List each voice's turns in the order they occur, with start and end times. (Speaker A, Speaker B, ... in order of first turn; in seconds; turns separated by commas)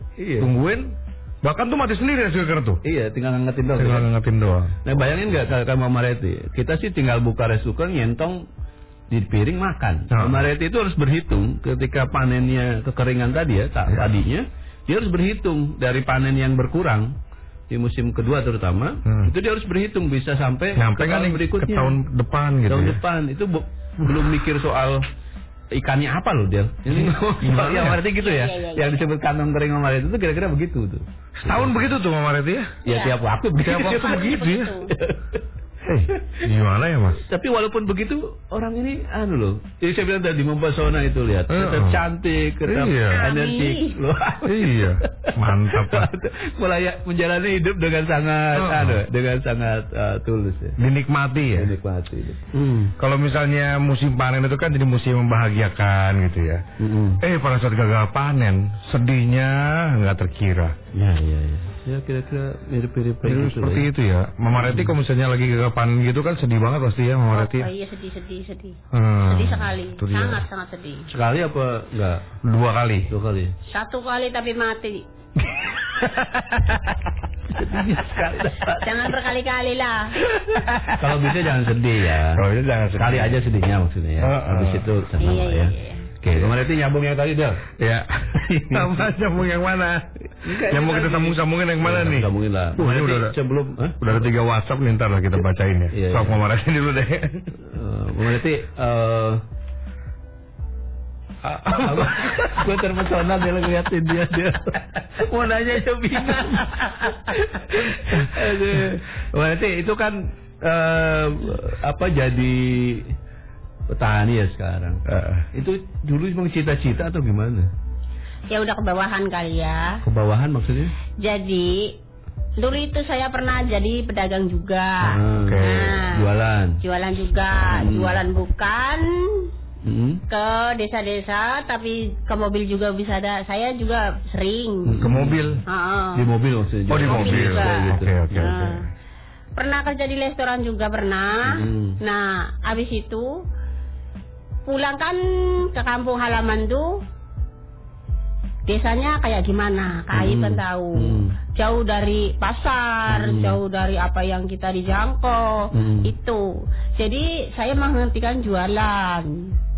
Speaker A: 0.2-0.5, Speaker B: 0.4-2.8, Speaker A: 2.8-4.1, Speaker B: 3.8-4.7, Speaker A: 4.8-8.4, Speaker A: 9.1-17.1, Speaker B: 10.1-10.5, Speaker A: 17.7-22.0, Speaker B: 19.1-19.3, Speaker B: 20.8-23.0, Speaker A: 22.7-25.1, Speaker A: 25.7-31.9, Speaker B: 26.9-28.0, Speaker C: 28.2-29.0, Speaker B: 31.4-32.7, Speaker C: 32.9-33.2, Speaker A: 32.9-34.4, Speaker B: 33.6-34.7, Speaker C: 33.8-34.9, Speaker A: 34.9-35.4, Speaker B: 35.8-37.2, Speaker A: 36.2-36.4, Speaker A: 37.2-50.8, Speaker B: 41.5-42.0, Speaker B: 42.7-43.2, Speaker C: 43.1-44.0, Speaker B: 44.5-46.1, Speaker B: 48.5-49.0, Speaker B: 50.8-51.7, Speaker A: 51.5-53.0, Speaker B: 53.0-56.6, Speaker A: 56.8-57.2, Speaker B: 57.2-60.8, Speaker A: 60.9-63.9, Speaker B: 63.2-67.7, Speaker A: 64.6-65.0, Speaker C: 67.3-71.1, Speaker B: 68.9-70.4, Speaker A: 71.1-72.2, Speaker B: 72.4-73.1, Speaker A: 73.1-73.5, Speaker C: 73.7-75.0, Speaker B: 75.4-77.1, Speaker A: 77.5-79.2, Speaker C: 78.8-80.2, Speaker A: 80.3-82.5, Speaker B: 80.5-81.4, Speaker B: 82.2-83.4, Speaker A: 83.0-87.7, Speaker B: 84.2-84.9, Speaker C: 85.2-86.1, Speaker B: 86.3-86.5, Speaker B: 87.8-93.3, Speaker A: 88.3-89.1, Speaker A: 90.4-94.1, Speaker B: 94.0-97.5, Speaker A: 95.9-96.4, Speaker A: 97.6-99.4, Speaker B: 101.4-102.7, Speaker A: 101.7-113.1, Speaker A: 113.9-117.7, Speaker B: 115.1-115.5, Speaker C: 118.5-120.0, Speaker A: 120.0-120.9, Speaker C: 121.2-122.0, Speaker C: 122.6-126.3, Speaker A: 125.0-126.8, Speaker B: 125.4-126.0, Speaker C: 126.8-129.5, Speaker A: 127.7-128.2, Speaker A: 129.8-130.2, Speaker C: 130.3-134.9, Speaker A: 134.9-135.6, Speaker B: 135.0-135.6, Speaker C: 135.7-136.2, Speaker A: 136.2-138.5, Speaker B: 136.9-138.9, Speaker C: 137.0-138.8, Speaker C: 139.6-143.3, Speaker A: 141.5-142.0, Speaker C: 144.7-145.2, Speaker C: 145.7-147.0, Speaker C: 148.7-159.4, Speaker A: 150.1-151.3, Speaker A: 153.1-153.6, Speaker A: 155.7-156.1